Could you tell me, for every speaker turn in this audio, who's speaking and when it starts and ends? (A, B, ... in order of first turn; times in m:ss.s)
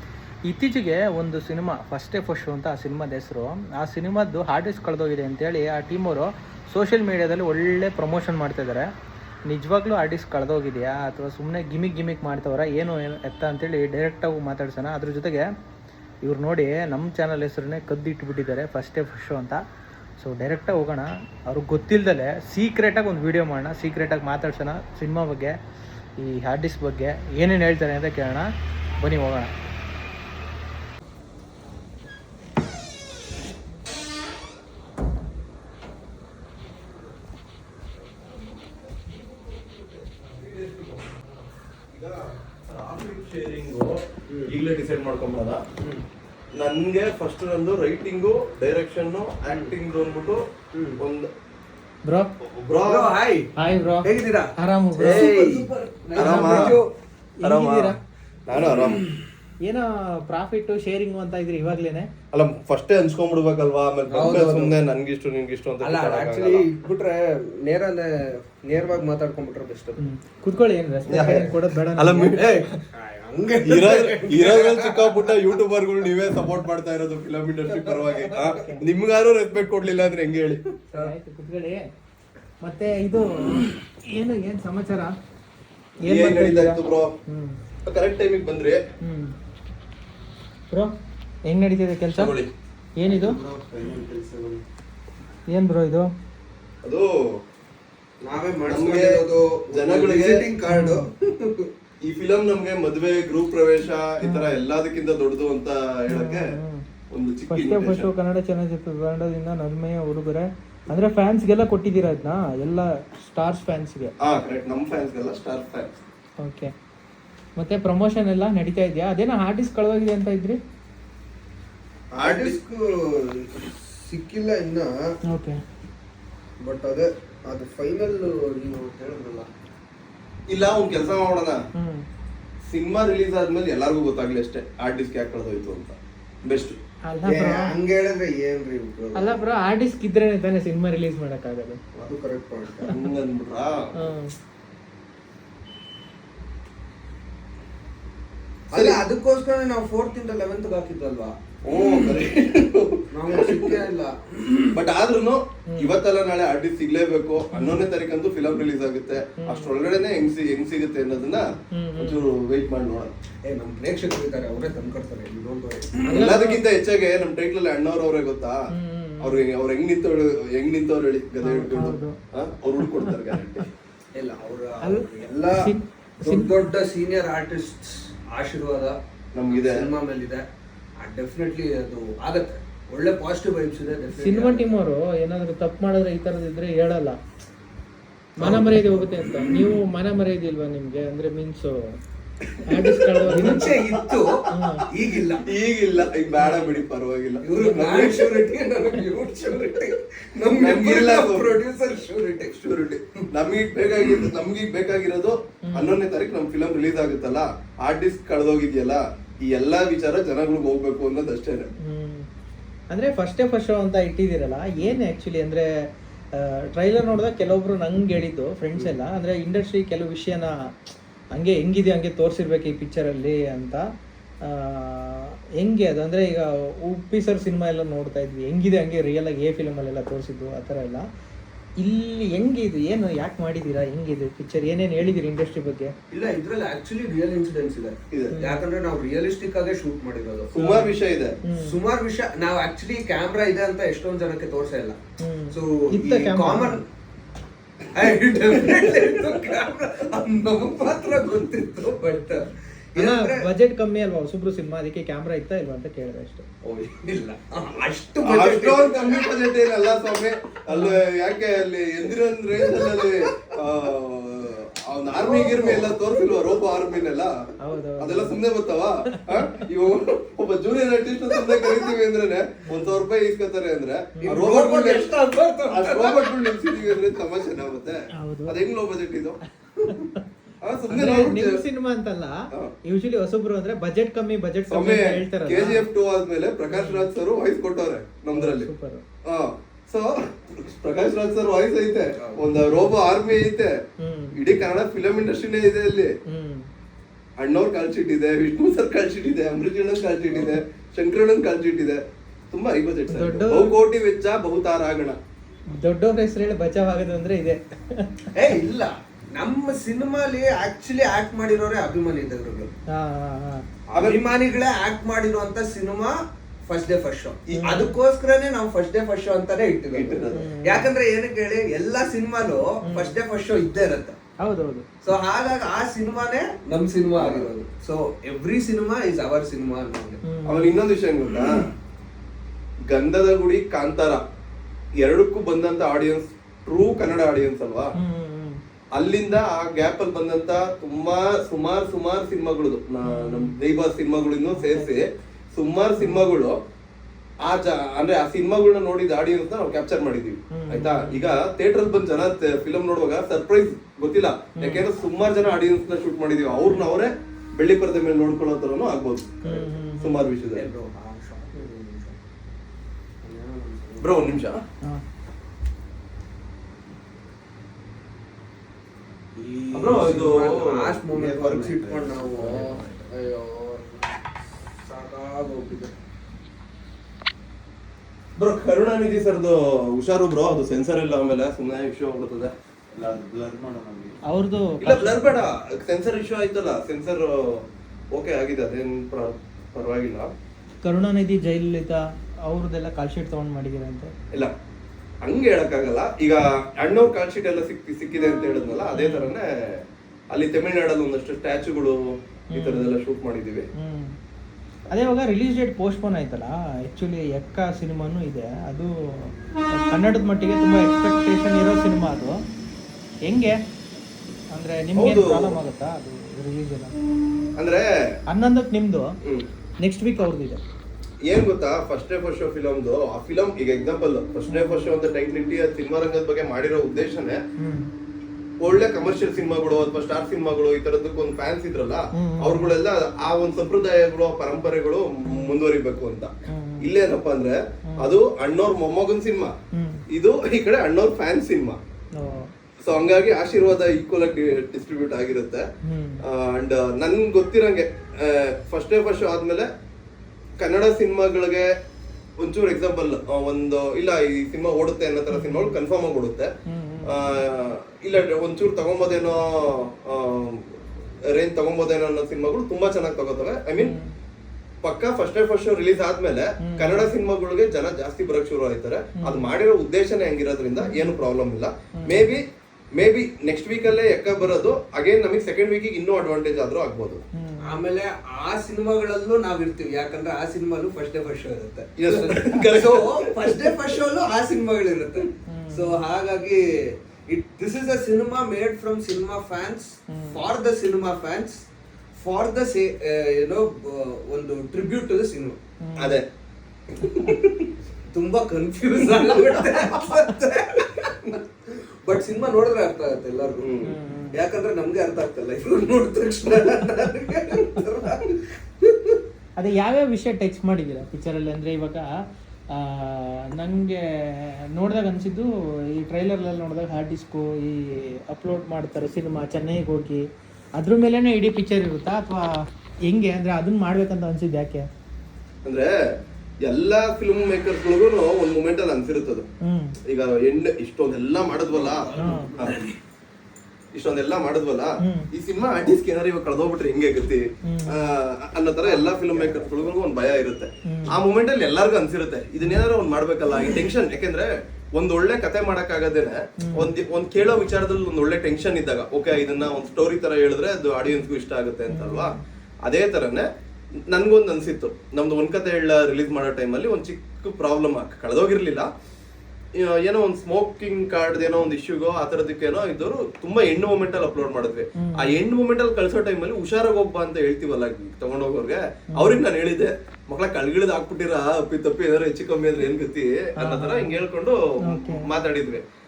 0:00.4-0:08.9 A
0:09.5-0:15.5 A
0:16.2-0:19.6 A
0:20.2-0:25.6 A
0:26.2-0:29.5 A
0:39.1-0:41.3 B
0:41.9-0:45.6 B
0:44.3-0:44.6 C
0:46.6-0:50.4 B
0:49.5-0:49.7 C
0:50.7-0:51.0 C
0:51.0-0:51.3 B
0:52.0-0:52.3 A
0:52.4-0:53.2 B
0:52.8-0:53.5 C
0:53.6-0:55.3 A
0:54.0-0:56.9 C
0:55.0-0:56.8 B
0:56.2-0:56.8 A
0:57.4-0:58.0 A
0:57.4-0:57.9 B
0:58.5-0:59.0 B
0:58.5-0:59.2 C
0:59.6-1:02.1 A
1:02.3-1:06.6 B
1:04.1-1:04.8 C
1:05.8-1:10.0 C
1:10.0-1:12.4 A
1:11.1-1:12.8 B
1:12.3-1:15.4 C
1:13.6-1:20.6 B
1:17.7-1:18.7 C
1:18.4-1:18.8 A
1:20.9-1:21.9 A
1:22.6-1:25.1 A
1:26.0-1:27.6 A
1:26.1-1:27.1 B
1:27.8-1:28.8 B
1:29.0-1:29.3 A
1:31.5-1:32.3 A
1:32.1-1:32.5 B
1:33.0-1:33.4 A
1:33.1-1:34.6 C
1:33.7-1:34.0 B
1:35.5-1:36.1 A
1:36.8-1:37.4 B
1:38.2-1:41.7 C
1:38.7-1:40.5 B
1:40.7-1:41.1 A
1:42.0-1:46.5 B
1:44.2-1:44.6 A
1:46.1-1:46.8 A
1:47.1-1:48.1 B
1:47.5-1:54.1 A
1:54.2-1:55.9 B
1:56.4-1:56.7 A
1:57.6-2:00.6 A
2:02.2-2:02.6 B
2:02.2-2:05.1 C
2:05.3-2:05.6 A
2:06.6-2:09.5 C
2:10.5-2:11.6 B
2:11.7-2:12.0 A
2:12.7-2:16.8 B
2:17.1-2:17.7 A
2:17.2-2:19.4 C
2:19.2-2:21.8 A
2:22.0-2:22.9 C
2:22.8-2:23.9 B
2:24.0-2:24.3 A
2:28.7-2:29.0 B
2:28.7-2:31.4 C
2:31.6-2:33.8 B
2:33.1-2:34.8 C
2:34.7-2:43.1 B
2:35.7-2:36.0 A
2:37.5-2:37.8 A
2:39.4-2:39.8 A
2:41.7-2:42.2 A
2:43.4-2:46.3 C
2:46.0-2:46.6 A
2:46.1-2:48.6 B
2:48.7-2:49.4 A
2:49.2-2:53.7 B
2:51.4-2:52.2 A
2:52.9-2:53.3 A
2:54.2-2:55.7 C
2:54.8-2:56.6 A
2:56.2-2:59.0 C
2:59.3-2:59.9 B
2:59.5-3:00.4 C
3:01.0-3:04.7 C
3:04.1-3:07.2 A
3:08.4-3:12.0 A
3:08.4-3:08.8 B
3:08.4-3:09.6 C
3:12.6-3:13.8 A
3:13.2-3:14.8 B
3:13.2-3:15.5 C
3:14.5-3:14.8 A
3:15.4-3:18.5 B
3:16.4-3:16.8 A
3:17.4-3:23.0 C
3:20.6-3:21.6 B
3:22.7-3:31.7 B
3:25.6-3:26.0 A
3:31.8-3:32.2 A
3:32.9-3:35.7 A
3:36.3-3:40.7 A
3:41.3-3:43.8 A
3:44.4-3:51.0 A
3:51.8-3:55.9 A
3:56.1-4:00.5 C
3:58.1-3:58.4 B
3:58.3-3:58.6 A
4:00.5-4:01.4 B
4:00.6-4:01.8 A
4:01.6-4:05.0 C
4:05.2-4:06.8 A
4:05.5-4:06.8 C
4:07.9-4:13.5 C
4:08.5-4:09.4 B
4:13.0-4:16.4 A
4:16.7-4:19.3 C
4:18.2-4:27.3 B
4:20.7-4:21.0 A
4:22.6-4:23.5 C
4:25.2-4:26.0 C
4:27.6-4:28.4 A
4:28.0-4:35.1 B
4:29.1-4:29.7 A
4:32.7-4:33.0 A
4:34.2-4:34.4 A
4:34.3-4:36.4 C
4:35.7-4:39.4 B
4:38.1-4:38.6 A
4:39.8-4:40.0 C
4:40.6-4:41.6 B
4:40.9-4:45.8 A
4:44.7-4:48.7 B
4:46.7-4:47.1 A
4:48.3-4:49.0 A
4:49.2-4:53.7 B
4:52.2-4:52.4 C
4:54.0-4:54.4 A
4:54.3-4:56.1 B
4:56.3-4:56.7 A
4:57.4-5:02.0 B
5:02.5-5:05.2 B
5:03.1-5:03.8 A
5:05.8-5:08.2 A
5:08.3-5:12.7 C
5:12.9-5:13.6 A
5:13.9-5:24.2 C
5:13.9-5:14.2 B
5:17.5-5:17.8 B
5:17.5-5:17.9 A
5:19.9-5:20.4 B
5:20.3-5:20.9 A
5:22.8-5:23.2 A
5:24.4-5:24.8 A
5:25.0-5:30.2 C
5:27.2-5:27.5 B
5:30.2-5:30.7 A
5:30.4-5:31.7 B
5:31.4-5:31.7 C
5:32.9-5:34.2 B
5:35.0-5:37.9 B
5:38.0-5:38.6 A
5:38.9-5:46.6 B
5:43.0-5:43.6 A
5:44.5-5:44.9 A
5:46.0-5:46.3 A
5:47.4-6:00.7 B
5:50.5-5:51.3 A
5:54.6-5:54.8 A
5:59.4-6:00.2 A
6:00.5-6:02.2 C
6:03.2-6:04.4 C
6:04.0-6:04.6 B
6:09.4-6:14.2 C
6:09.7-6:12.9 B
6:14.7-6:16.0 C
6:18.4-6:24.2 B
6:24.3-6:25.2 A
6:24.8-6:30.3 B
6:30.8-6:34.1 A
6:35.2-6:43.7 B
6:38.9-6:39.3 A
6:42.5-6:42.9 A
6:43.8-6:44.1 A
6:44.9-6:52.4 A
6:53.3-6:53.6 A
6:54.5-6:56.9 A
6:55.0-6:55.6 B
6:57.6-6:58.2 B
6:58.3-6:59.2 A
6:59.8-7:00.6 A
7:01.2-7:07.4 B
7:04.5-7:04.9 A
7:07.6-7:07.9 A
7:08.6-7:19.5 B
7:12.1-7:12.7 A
7:15.3-7:15.6 A
7:16.5-7:16.9 A
7:17.9-7:18.2 A
7:19.7-7:20.0 A
7:20.1-7:21.8 B
7:22.2-7:22.5 A
7:22.8-7:25.6 B
7:25.8-7:26.2 A
7:26.2-7:29.7 B
7:30.6-7:31.7 B
7:32.4-7:36.5 B
7:35.3-7:35.8 A
7:36.7-7:37.2 A
7:37.0-7:43.9 B
7:43.8-7:44.1 A
7:44.8-7:52.4 B
7:46.6-7:47.1 A
7:49.2-7:49.5 A
7:50.8-7:51.1 A
7:52.0-7:52.2 A
7:52.9-7:57.2 B
7:57.3-7:57.8 A
7:57.6-8:11.6 C
8:02.0-8:04.0 B
8:05.5-8:06.0 A
8:10.1-8:10.4 A
8:12.2-8:15.6 C
8:15.8-8:16.2 A
8:16.0-8:16.2 B
8:16.9-8:17.7 B
8:18.1-8:23.8 C
8:19.0-8:20.0 B
8:20.0-8:20.4 A
8:23.6-8:23.9 B
8:23.8-8:24.4 A
8:24.3-8:29.2 C
8:29.6-8:32.1 A
8:32.7-8:42.5 A
8:43.1-8:44.9 A
8:45.6-8:45.9 B
8:46.6-8:49.5 B
8:49.6-8:50.0 A
8:50.0-8:52.8 B
8:51.7-8:53.0 C
8:52.2-8:52.5 A
8:53.9-9:12.3 B
8:55.0-8:55.3 A
8:57.6-8:58.0 A
8:58.8-8:59.9 C
9:00.8-9:01.2 A
9:06.6-9:06.9 A
9:11.9-9:12.4 A
9:12.8-9:13.5 B
9:14.1-9:18.9 B
9:19.8-9:35.8 B
9:25.0-9:25.3 A
9:29.1-9:29.4 A
9:33.6-9:34.2 A
9:34.8-9:35.3 A